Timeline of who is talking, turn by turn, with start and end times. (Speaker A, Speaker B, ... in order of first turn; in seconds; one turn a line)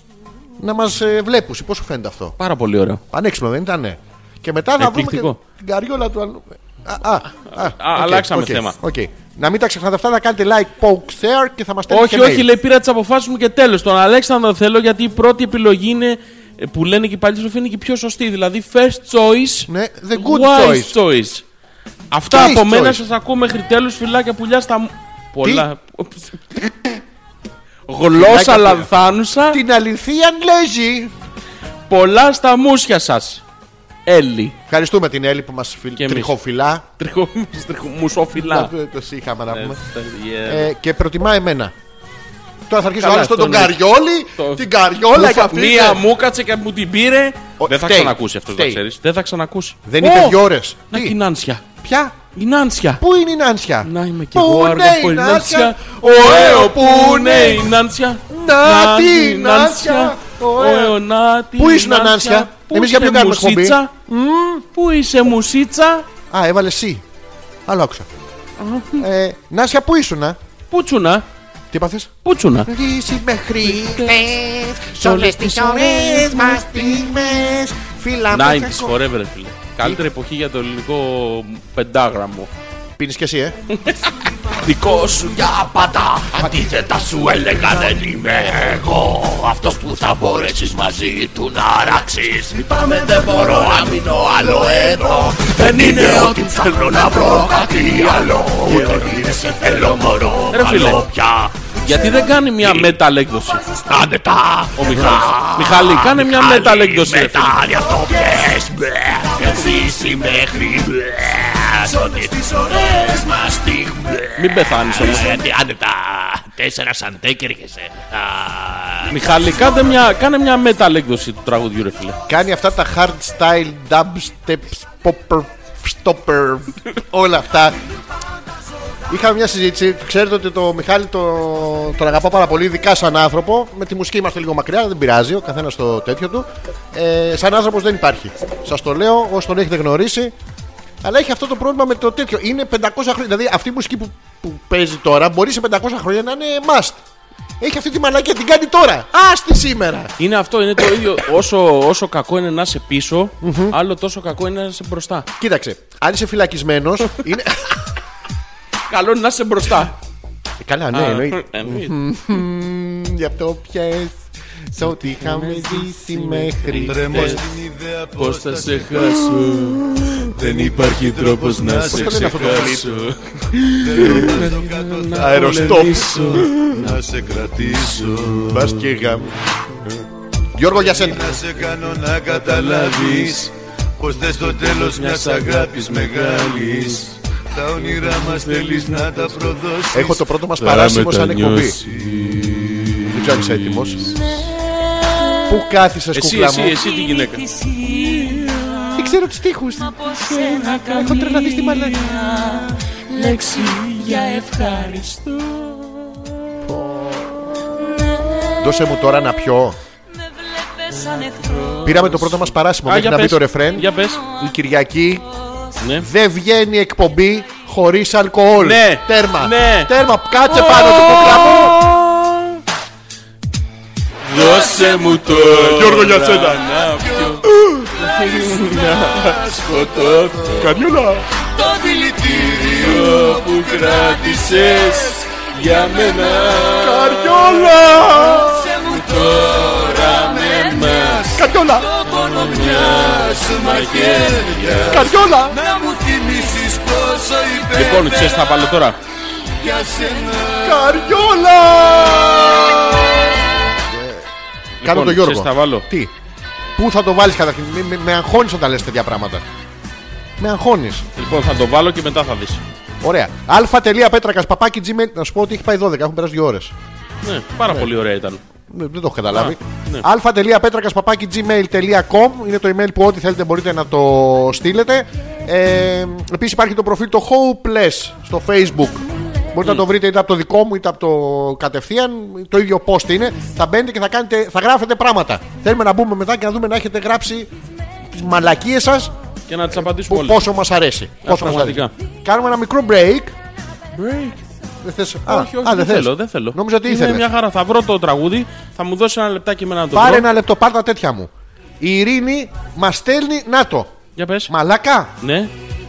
Speaker A: 0.6-2.4
Speaker B: 2.4-3.0
Speaker A: 3.1-12.5
Speaker B: 4.8-5.4
Speaker B: 7.3-8.8
Speaker B: 11.9-21.4
Speaker A: 19.7-21.0
Speaker B: 22.1-26.7
Speaker A: 22.3-23.0
Speaker B: 27.9-29.6
Speaker A: 28.1-28.9
Speaker A: 29.5-31.1
Speaker B: 31.9-33.4
Speaker B: 34.0-34.5
Speaker A: 34.7-36.8
Speaker B: 36.0-36.3
Speaker B: 37.0-38.7
Speaker A: 38.4-39.8
Speaker B: 39.5-40.7
Speaker A: 40.4-41.7
Speaker A: 42.7-46.0
Speaker B: 43.0-43.8
Speaker B: 44.4-51.6
Speaker A: 47.6-48.8
Speaker A: 49.9-51.1
Speaker A: 51.8-52.1
Speaker B: 52.3-53.0
Speaker A: 53.0-57.7
Speaker B: 53.8-63.9
Speaker A: 58.3-61.0
Speaker A: 61.5-64.6
Speaker B: 64.7-66.0
Speaker A: 66.3-67.0
Speaker A: 67.7-68.1
Speaker B: 68.6-69.0
Speaker A: 69.0-70.4
Speaker B: 70.7-71.2
Speaker A: 71.7-72.1
Speaker B: 72.2-72.7
Speaker A: 72.7-79.0
Speaker B: 73.7-74.2
Speaker B: 75.0-77.0
Speaker B: 78.3-82.5
Speaker A: 83.0-83.6
Speaker B: 83.7-84.1
Speaker B: 84.6-85.3
Speaker C: 84.7-101.6
Speaker B: 95.6-96.3
Speaker B: 100.5-101.0
Speaker B: 101.8-103.6
Speaker C: 102.6-102.9
Speaker C: 103.7-119.1
Speaker B: 104.8-107.6
Speaker B: 114.4-115.4
Speaker B: 119.1-122.2
Speaker A: 122.3-127.8
Speaker A: 129.1-140.3
Speaker A: 141.0-147.0
Speaker A: 147.6-150.1
Speaker B: 150.2-155.3
Speaker A: 153.4-153.8
Speaker A: 155.4-157.9
Speaker B: 158.9-159.9
Speaker A: 160.6-167.4
Speaker B: 160.9-161.9
Speaker B: 164.8-167.5
Speaker D: 166.8-169.3
Speaker B: 168.2-169.8
Speaker A: 169.4-170.3
Speaker D: 170.3-173.1
Speaker B: 170.4-177.0
Speaker A: 171.9-172.9
Speaker D: 173.8-178.8
Speaker A: 174.0-174.3
Speaker A: 175.2-176.9
Speaker B: 177.7-178.0
Speaker A: 178.5-179.3
Speaker A: 180.5-181.4
Speaker D: 180.9-190.2
Speaker B: 182.3-183.5
Speaker B: 184.4-187.1
Speaker B: 187.8-189.5
Speaker A: 189.9-191.8
Speaker B: 190.6-194.2
Speaker D: 191.8-192.3
Speaker A: 193.1-194.2
Speaker A: 195.5-196.8
Speaker B: 196.1-199.1
Speaker E: 197.0-198.4
Speaker A: 199.0-200.0
Speaker E: 199.9-201.0
Speaker B: 200.0-206.2
Speaker A: 200.9-202.0
Speaker E: 202.2-202.5
Speaker E: 203.1-204.4
Speaker A: 206.6-207.7
Speaker A: 208.6-209.8
Speaker E: 210.3-211.7
Speaker B: 210.9-214.2
Speaker A: 211.8-215.2
Speaker B: 215.8-216.1
Speaker A: 216.0-221.8
Speaker B: 218.6-219.9
Speaker B: 220.4-222.6
Speaker B: 224.2-230.8
Speaker D: 224.3-227.4
Speaker A: 225.5-226.6
Speaker A: 227.5-227.9
Speaker D: 228.0-230.7
Speaker A: 230.6-231.3
Speaker D: 231.5-236.6
Speaker B: 232.4-241.4
Speaker A: 236.7-238.8
Speaker D: 238.4-241.4
Speaker A: 241.3-241.9
Speaker B: 242.0-245.1
Speaker D: 242.0-248.6
Speaker A: 244.8-245.6
Speaker B: 247.7-249.0
Speaker D: 249.6-250.9
Speaker A: 250.6-253.0
Speaker A: 253.8-254.2
Speaker B: 254.8-255.9
Speaker A: 254.8-256.1
Speaker A: 256.8-259.4
Speaker A: 260.4-261.1
Speaker B: 261.1-262.6
Speaker A: 263.0-266.7
Speaker B: 267.2-268.4
Speaker A: 268.7-287.5
Speaker B: 269.3-270.1
Speaker A: 288.1-289.1
Speaker B: 289.5-290.4
Speaker A: 289.7-293.4
Speaker B: 291.2-291.9
Speaker B: 293.9-294.4
Speaker A: 294.8-297.2
Speaker B: 295.3-300.3
Speaker A: 299.9-303.9
Speaker B: 304.2-304.5
Speaker A: 304.5-305.1
Speaker B: 305.2-305.5